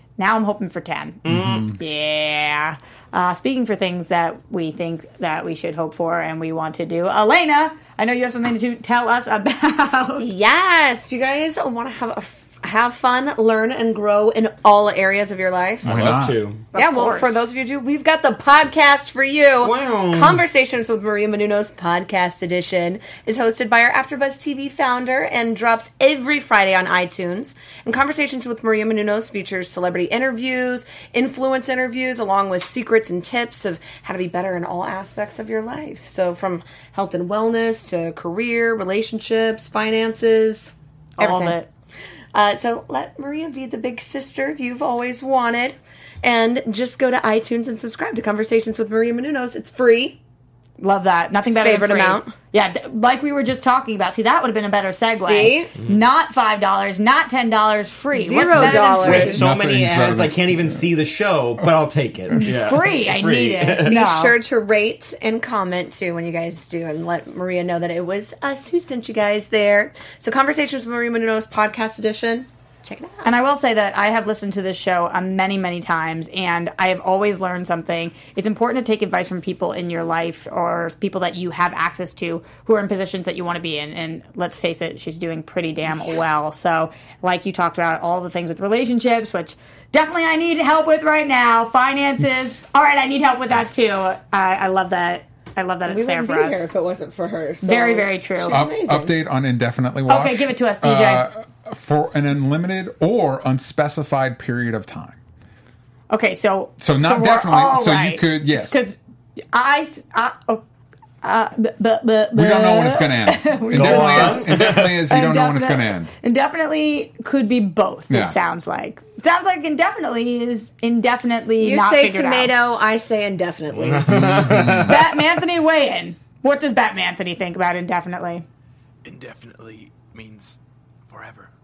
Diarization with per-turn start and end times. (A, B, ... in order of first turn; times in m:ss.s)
0:00.2-0:10.3 A
0:01.2-0:01.7 B
0:01.2-0:01.7 C
0:10.2-0:15.8 D
0:15.8-0:16.4 C
0:15.8-0:16.6 B
0:16.7-0:17.4 A
0:16.7-0:41.6 D
0:19.6-0:20.4 B
0:41.2-0:41.7 A
0:42.3-0:50.2 D
0:50.8-0:59.4 A
0:51.4-0:52.3 D
0:55.2-0:55.7 D
0:58.1-0:59.4 D
0:58.5-1:03.9 B
0:59.0-1:00.9 C
1:02.4-1:04.3 A
1:03.8-1:13.3 D
1:13.2-1:36.7 A
1:35.9-1:39.1 D
1:37.6-1:38.6 A
1:38.5-1:45.2 C
1:40.1-1:41.2 A
1:46.1-1:49.0 A
1:46.8-1:48.8 C
1:49.5-1:50.6 A
1:51.2-2:02.5 A
1:52.3-1:56.1 C
1:53.7-1:55.0 B
1:58.1-1:58.4 C
2:01.6-2:04.5 D
2:03.7-2:05.0 B
2:04.1-2:04.9 C
2:04.8-2:08.4 A
2:09.0-2:10.6 E
2:11.1-2:11.5 E